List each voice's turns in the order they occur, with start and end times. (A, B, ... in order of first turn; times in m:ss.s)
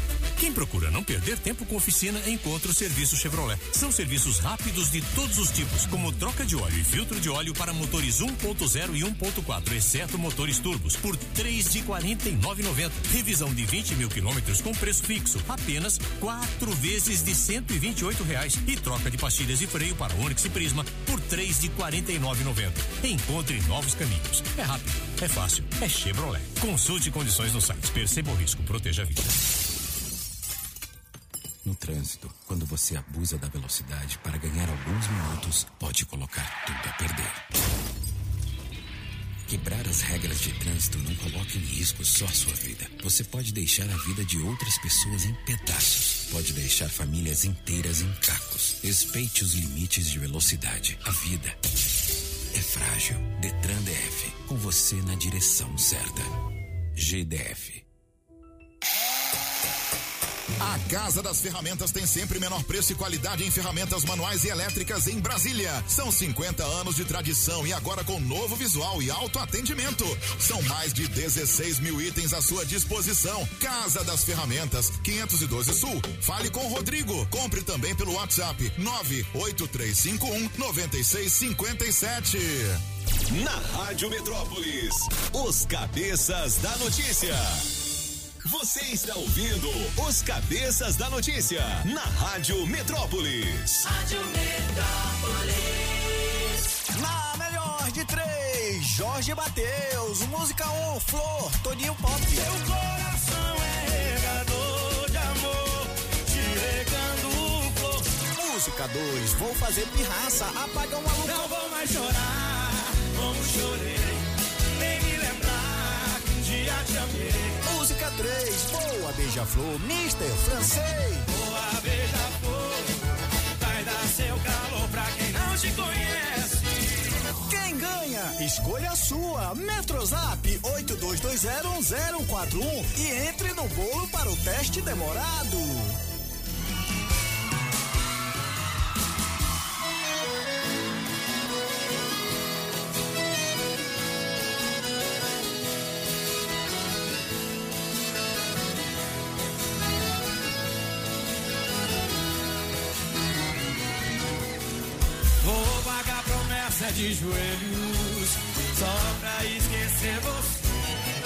0:00.4-0:29.3 A
0:31.6-0:37.4 B
0:39.5-0:51.6 B
0:52.5-0:56.3 B
0:57.0-0:57.8 B
1:00.6-1:22.8 C
1:23.3-1:27.6 D
1:28.4-1:33.8 D
1:33.8-1:36.6 E
1:37.0-1:42.5 F
1:42.3-1:48.2 E
1:48.3-1:51.5 F
1:51.2-1:57.6 E
1:57.7-2:01.3 F
2:01.3-2:06.6 E
2:07.5-2:16.0 F
2:35.4-2:40.7 E